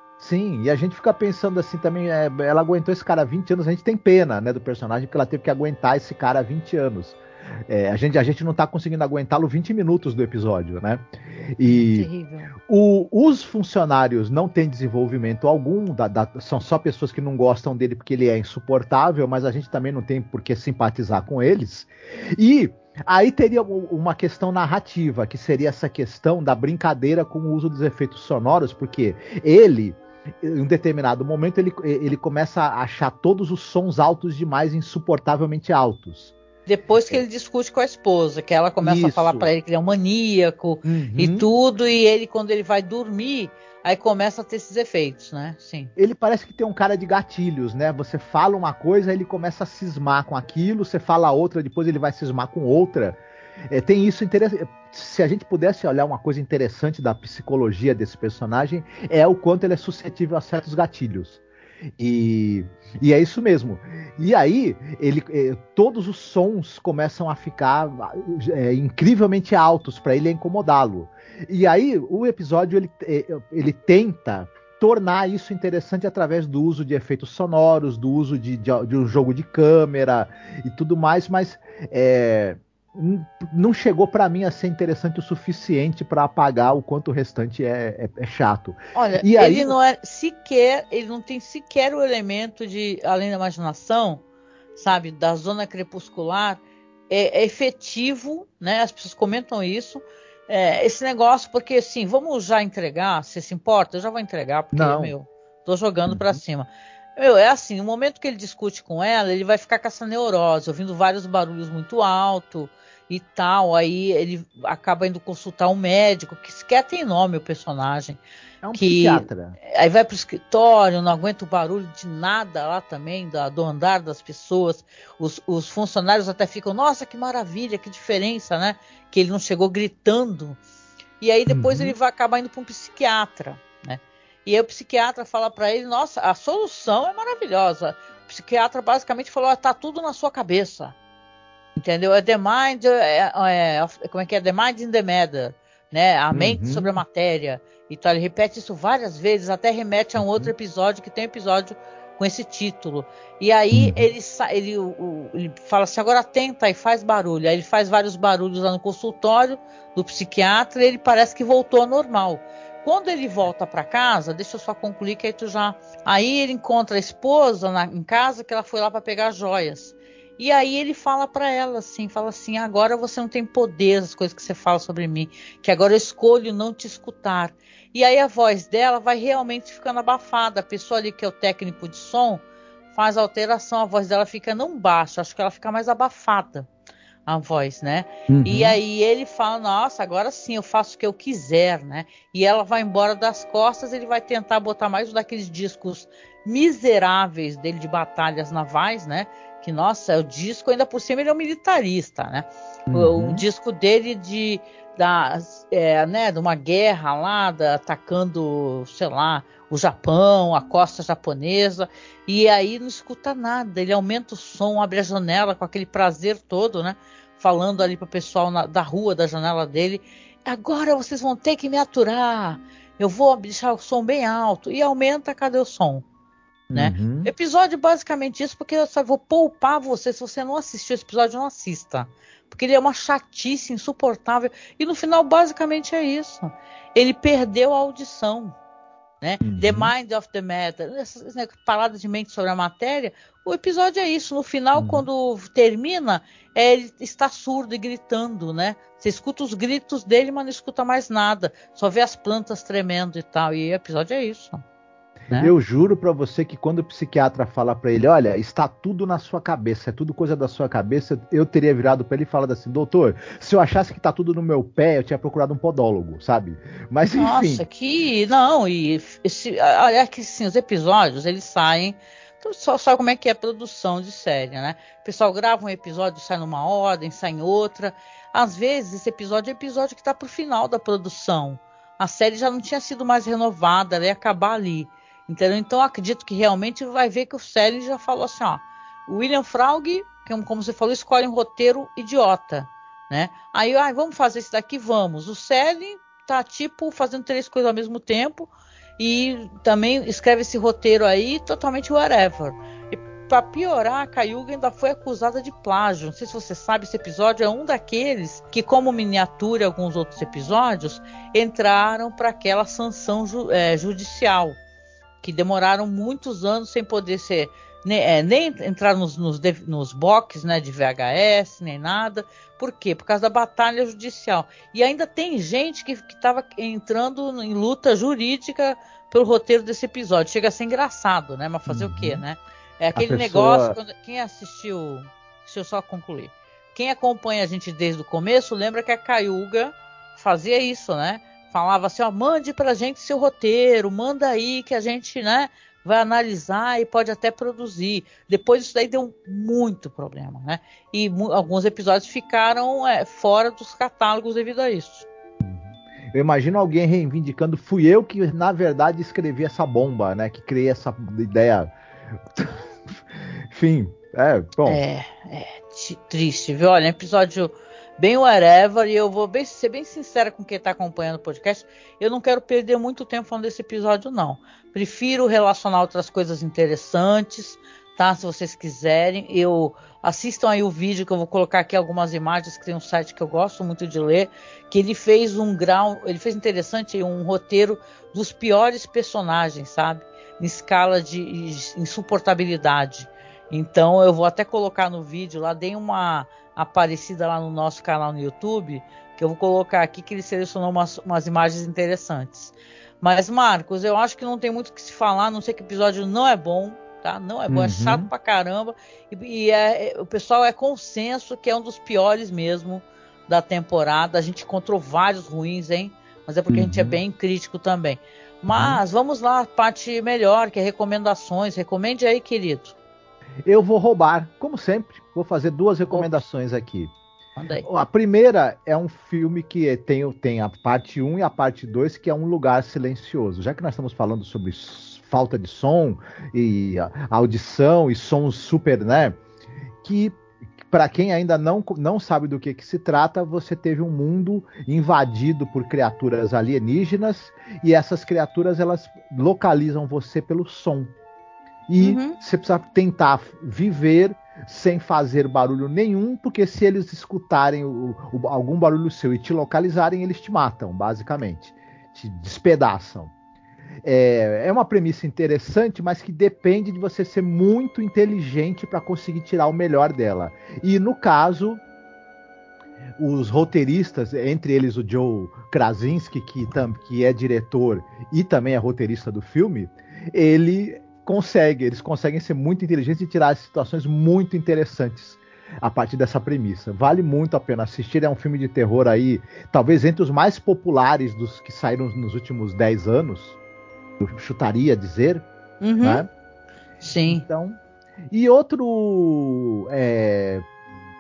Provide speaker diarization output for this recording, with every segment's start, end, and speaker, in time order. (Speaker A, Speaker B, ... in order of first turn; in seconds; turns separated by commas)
Speaker A: 0.2-36.4, Speaker B: 11.7-12.5, Speaker B: 36.7-45.9, Speaker A: 38.8-39.5, Speaker A: 40.8-41.5, Speaker A: 46.0-53.2, Speaker A: 53.7-61.4, Speaker A: 62.0-89.8, Speaker B: 89.0-94.2, Speaker B: 94.8-118.2, Speaker A: 104.7-105.1, Speaker A: 106.1-106.4, Speaker A: 118.6-119.6, Speaker B: 118.7-130.6, Speaker B: 131.2-140.9, Speaker A: 131.5-131.9, Speaker B: 141.8-186.7, Speaker A: 146.3-146.9, Speaker A: 150.2-150.5, Speaker A: 153.7-154.0, Speaker B: 187.3-226.1, Speaker A: 188.3-188.8, Speaker A: 202.9-203.4, Speaker A: 226.7-227.3, Speaker B: 226.7-238.6, Speaker B: 239.2-254.6, Speaker A: 239.4-239.9, Speaker A: 244.8-245.1, Speaker A: 255.3-267.6, Speaker B: 267.2-314.6, Speaker B: 315.2-355.1, Speaker A: 331.7-332.2, Speaker A: 333.0-333.8, Speaker A: 355.4-361.7, Speaker A: 362.4-362.6, Speaker A: 363.5-364.8, Speaker B: 364.7-422.8, Speaker A: 407.5-408.1, Speaker A: 416.5-417.0, Speaker A: 418.5-418.8, Speaker A: 423.5-426.9, Speaker B: 427.4-427.7, Speaker A: 427.6-439.2, Speaker A: 439.8-450.9, Speaker A: 451.7-463.1, Speaker B: 451.8-452.2, Speaker A: 463.8-471.6, Speaker A: 473.0-493.4, Speaker A: 494.0-495.3, Speaker B: 495.6-496.1, Speaker A: 495.8-496.1, Speaker B: 496.8-497.2, Speaker A: 497.1-497.6, Speaker A: 498.1-500.4